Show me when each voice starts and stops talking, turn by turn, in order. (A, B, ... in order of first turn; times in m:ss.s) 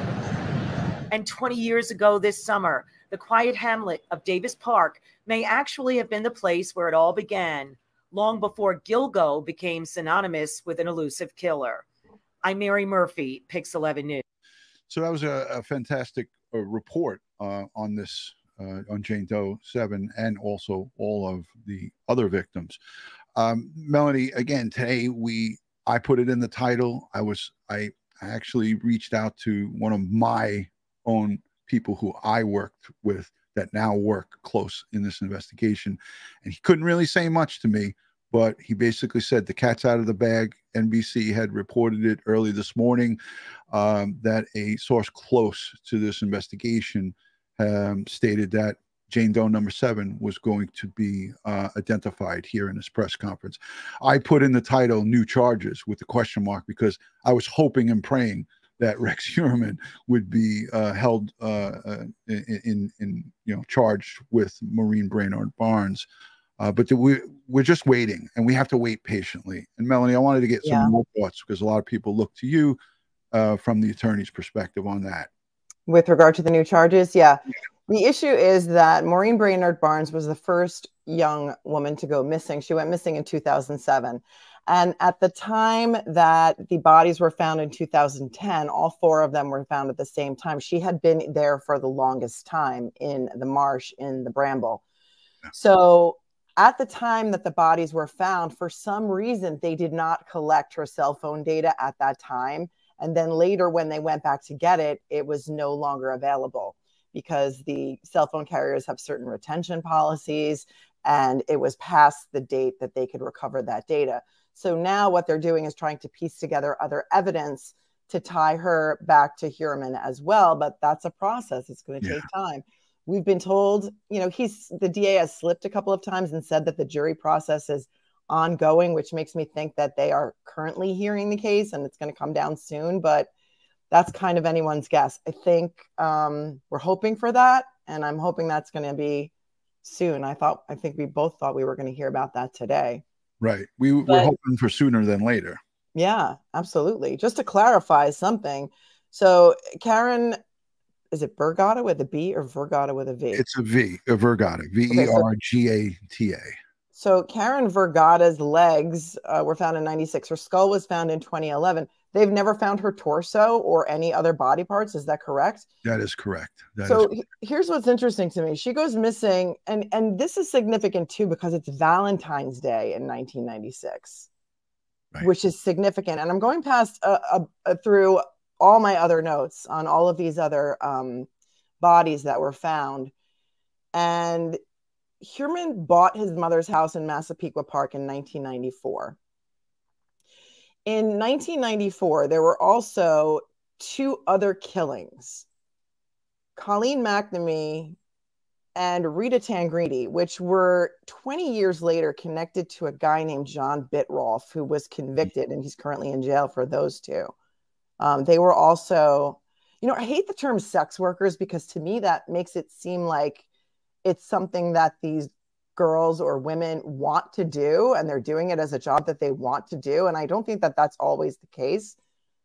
0:01.1-0:11.8 A
0:12.4-0:14.2 A
0:14.9-0:22.8 B
0:23.4-0:43.2 B
0:43.7-1:06.1 B
1:06.6-1:12.8 B
1:10.6-1:10.9 C
1:13.3-1:15.3 B
1:15.9-1:34.8 C
1:35.5-2:13.3 C
2:13.9-2:19.3 C
2:19.8-2:23.0 C
2:23.4-2:25.6 B
2:24.0-2:24.3 C
2:26.0-2:30.4 C
2:31.1-2:33.4 C
2:33.3-2:36.5 B
2:34.9-2:35.3 C
2:36.9-2:45.7 C
2:45.8-2:47.1 B
2:46.8-2:54.3 C
2:55.2-3:01.3 C
3:01.8-3:03.1 C
3:03.9-3:04.6 C
3:05.2-3:09.2 C
3:10.9-3:15.4 C
3:16.6-3:18.0 C
3:18.8-3:27.3 C
3:28.0-3:33.4 C
3:34.0-3:42.0 C